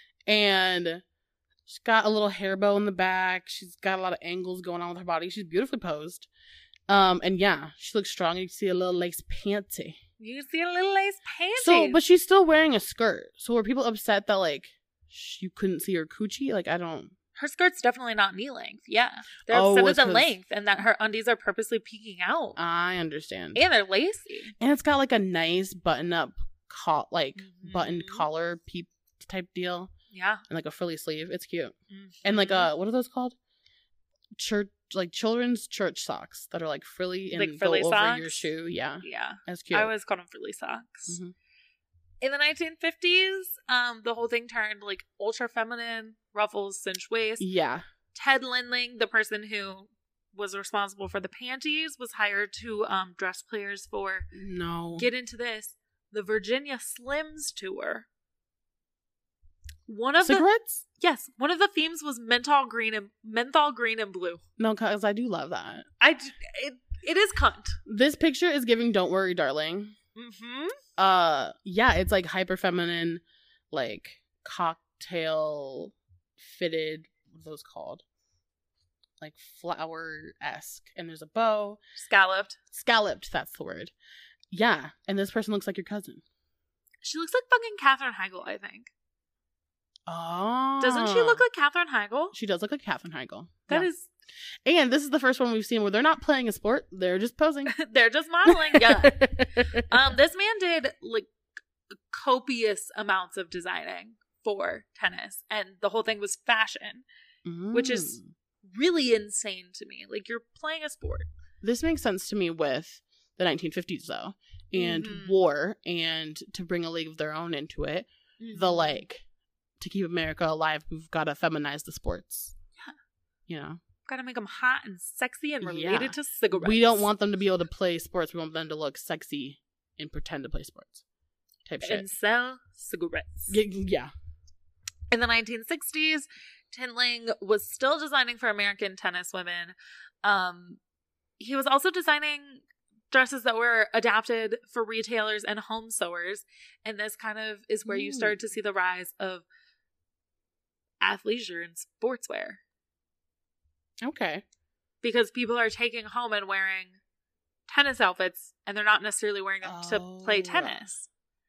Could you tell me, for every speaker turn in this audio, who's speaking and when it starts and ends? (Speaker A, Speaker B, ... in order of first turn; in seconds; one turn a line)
Speaker A: 0.3-1.0
Speaker A: 1.7-6.3
Speaker A: 6.9-10.0
Speaker B: 10.2-12.0
Speaker A: 11.6-17.1
Speaker B: 17.3-22.6
Speaker A: 19.5-20.4
Speaker A: 22.6-23.6
Speaker B: 23.5-24.5
Speaker A: 24.6-29.9
Speaker B: 27.4-28.2
Speaker B: 30.1-30.4
Speaker A: 30.5-33.4
Speaker B: 31.9-32.7
Speaker A: 34.4-39.9
Speaker B: 37.3-38.5
Speaker B: 39.0-41.2
Speaker A: 41.1-41.3
Speaker B: 42.2-47.4
Speaker A: 47.4-47.8
Speaker B: 48.1-54.3
Speaker A: 54.3-55.1
Speaker B: 55.0-58.1
Speaker B: 59.9-60.5
Speaker A: 60.2-60.8
Speaker B: 61.0-64.4
Speaker A: 64.6-65.9
Speaker B: 66.0-67.8
Speaker A: 67.8-70.0
Speaker B: 70.1-70.8
Speaker A: 71.0-78.0
Speaker A: 79.2-81.8
Speaker B: 82.0-82.6
Speaker A: 82.7-83.9
Speaker A: 84.5-86.2
Speaker B: 87.0-88.9
Speaker A: 90.1-91.4
Speaker B: 90.8-92.3
Speaker A: 92.3-93.9
Speaker B: 93.7-94.1
Speaker A: 94.7-97.7
Speaker B: 97.7-101.3
Speaker A: 98.5-99.9
Speaker B: 101.9-107.0
Speaker A: 107.4-108.3
Speaker B: 107.7-111.3
Speaker A: 111.6-119.2
Speaker B: 114.8-115.4
Speaker B: 118.4-119.0
Speaker A: 119.8-122.5
Speaker A: 123.5-123.8
Speaker B: 124.0-127.1
Speaker A: 125.6-131.0
Speaker A: 131.6-132.1
Speaker B: 131.8-133.6
Speaker A: 133.5-134.1
Speaker B: 135.1-140.8
Speaker B: 141.4-149.5
Speaker A: 147.8-148.4
Speaker B: 151.0-152.6
Speaker A: 154.0-154.4
Speaker B: 155.0-157.0
Speaker B: 157.7-161.1
Speaker A: 159.6-160.9